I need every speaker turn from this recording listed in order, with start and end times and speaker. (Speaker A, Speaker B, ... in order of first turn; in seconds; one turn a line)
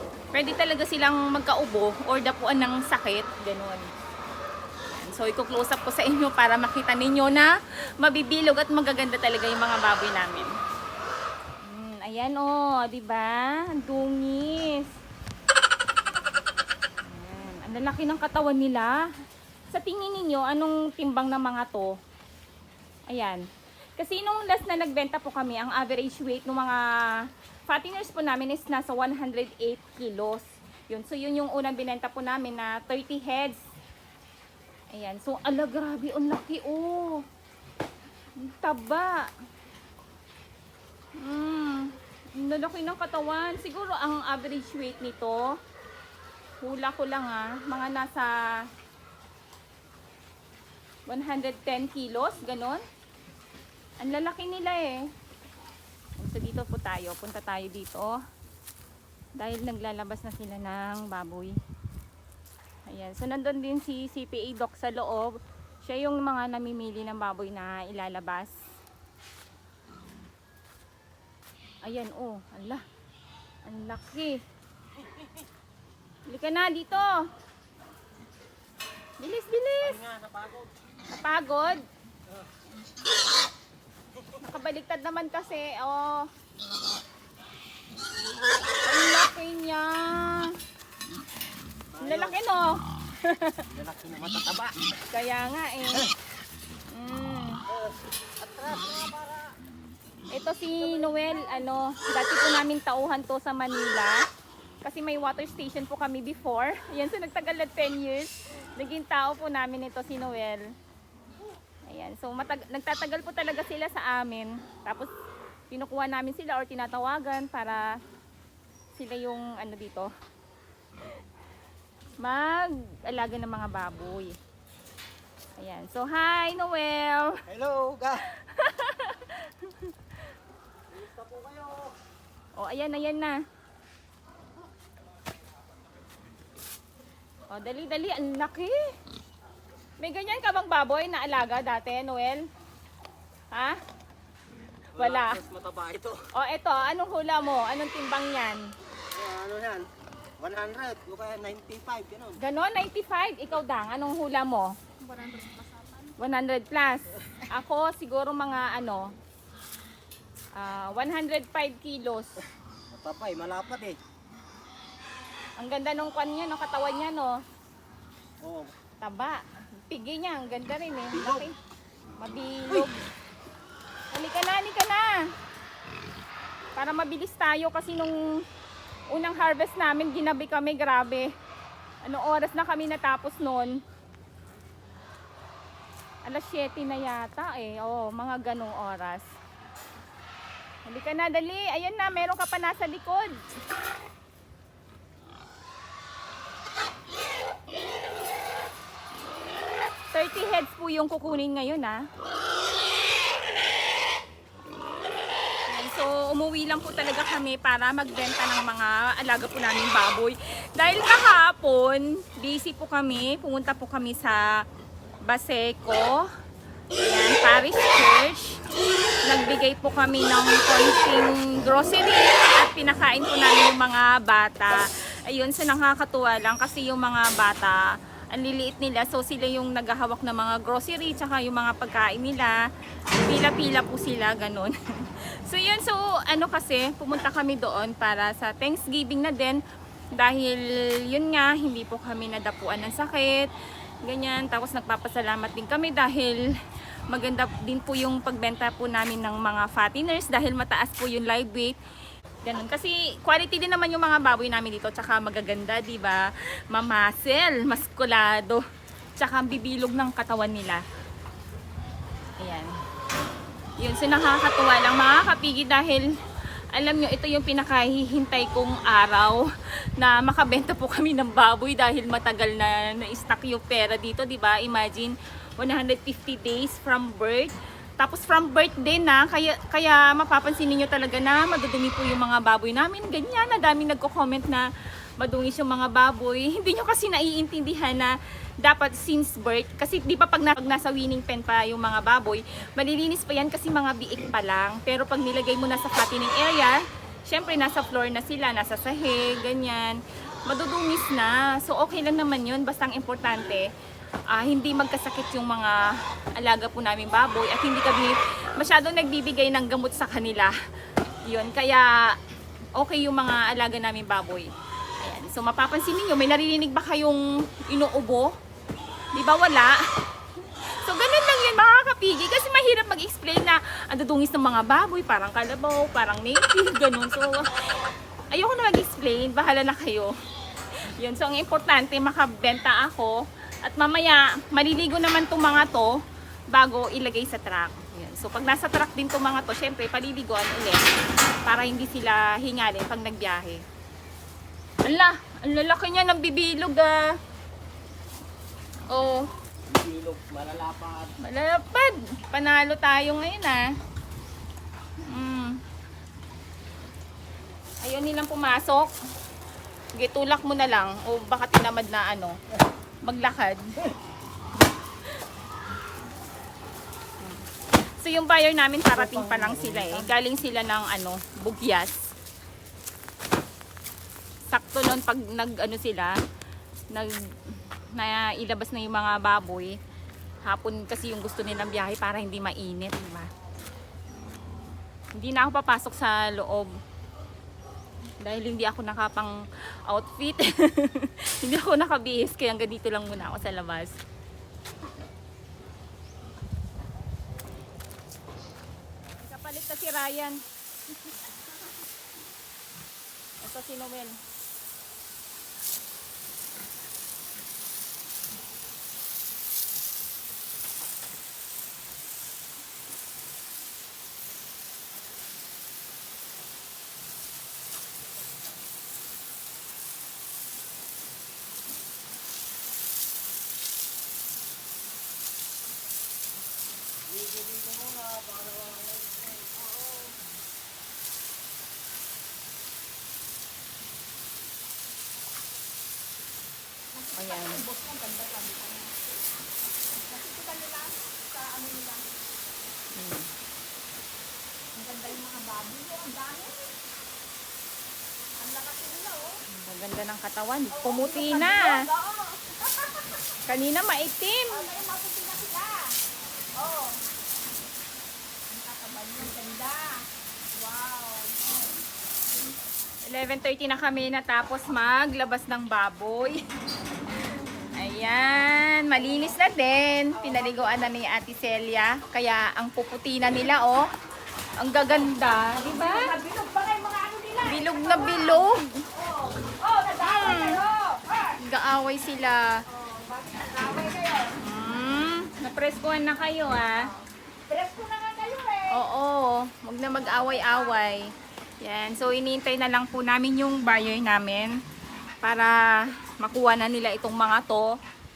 Speaker A: 0.3-3.9
Speaker A: 4.9-10.5
Speaker A: 11.6-14.9
Speaker A: 17.0-19.0
Speaker A: 19.7-22.0
Speaker A: 23.1-23.4
Speaker A: 24.0-33.6
Speaker A: 34.9-37.2
Speaker A: 38.4-39.3
Speaker A: 41.1-45.6
Speaker A: 46.6-48.6
Speaker A: 51.0-52.8
Speaker A: 54.0-55.1
Speaker A: 56.2-58.2
Speaker A: 59.4-61.5
Speaker A: 62.9-68.6
Speaker A: 71.8-72.8
Speaker A: 73.6-74.4
Speaker A: 76.3-77.2
Speaker A: 79.2-80.0
Speaker B: 79.8-80.7
Speaker A: 81.1-81.8
Speaker A: 84.4-86.3
Speaker A: 88.8-90.6
Speaker B: 91.9-92.3
Speaker A: 92.0-93.7
Speaker B: 93.7-94.8
Speaker A: 95.1-96.1
Speaker A: 96.9-97.6
Speaker B: 97.7-99.5
Speaker A: 100.3-104.2
Speaker A: 104.8-110.7
Speaker A: 111.9-115.1
Speaker A: 115.7-117.9
Speaker A: 118.9-120.1
Speaker A: 122.2-124.4
Speaker A: 125.6-127.4
Speaker B: 127.5-128.3
Speaker A: 128.3-130.0
Speaker B: 130.9-131.9
Speaker A: 132.5-133.4
Speaker A: 137.5-138.9
Speaker A: 140.0-142.4
Speaker A: 143.5-143.8
Speaker B: 144.9-146.3
Speaker A: 144.9-145.4
Speaker A: 146.3-148.7
Speaker B: 149.1-152.4
Speaker A: 152.4-154.8
Speaker C: 155.0-156.1
Speaker A: 156.2-159.1
Speaker A: 160.5-162.4
Speaker B: 162.9-164.0
Speaker A: 165.6-167.4
Speaker B: 168.4-168.7
Speaker A: 169.0-171.6
Speaker B: 171.1-171.4
Speaker A: 172.2-172.9
Speaker A: 174.1-175.2
Speaker A: 176.8-178.4
Speaker A: 179.1-181.3
Speaker A: 182.0-183.8
Speaker A: 186.2-189.3
Speaker A: 190.8-193.4
Speaker A: 200.1-202.0
Speaker A: 205.7-214.6
Speaker A: 215.2-216.3
Speaker A: 216.9-218.6
Speaker A: 219.2-232.6
Speaker A: 233.1-239.6
Speaker A: 240.1-243.5
Speaker A: 244.0-246.4
Speaker A: 247.1-251.8
Speaker A: 252.4-258.6
Speaker A: 259.2-260.8
Speaker A: 262.4-262.7
Speaker A: 263.8-266.1
Speaker A: 266.7-284.6
Speaker A: 285.2-303.7
Speaker A: 304.3-310.6
Speaker A: 311.2-312.2
Speaker A: 312.7-318.3
Speaker A: 319.1-319.9
Speaker A: 320.4-330.1
Speaker A: 330.7-340.9
Speaker A: 341.4-343.6
Speaker A: 344.8-347.2
Speaker A: 348.9-349.3
Speaker B: 349.6-351.1
Speaker A: 351.2-353.7
Speaker A: 355.0-355.6
Speaker A: 357.8-358.9
Speaker A: 359.9-362.4
Speaker A: 363.0-363.8
Speaker A: 367.2-372.1
Speaker B: 369.1-369.8
Speaker A: 374.5-376.2
Speaker A: 376.9-379.8
Speaker A: 380.4-383.3
Speaker A: 385.1-386.8
Speaker A: 388.2-394.0
Speaker A: 399.1-400.4
Speaker A: 403.4-404.2
Speaker B: 427.1-429.1
Speaker C: 429.8-430.1
Speaker C: 436.9-438.9
Speaker A: 437.1-437.6
Speaker C: 440.0-442.1
Speaker A: 442.9-443.3
Speaker C: 444.7-446.7
Speaker C: 448.4-449.4
Speaker A: 449.5-451.8
Speaker C: 450.7-453.3
Speaker A: 453.4-454.6
Speaker C: 454.5-456.0
Speaker C: 456.5-457.0
Speaker C: 458.5-461.7
Speaker A: 463.0-466.4
Speaker A: 467.6-473.8
Speaker A: 474.6-476.1
Speaker C: 475.5-481.4
Speaker A: 477.4-478.9
Speaker A: 480.0-480.6
Speaker A: 481.4-482.6
Speaker C: 482.7-484.4
Speaker A: 484.4-486.9
Speaker C: 486.7-488.9
Speaker A: 488.7-494.6
Speaker C: 489.9-490.9
Speaker A: 495.2-497.8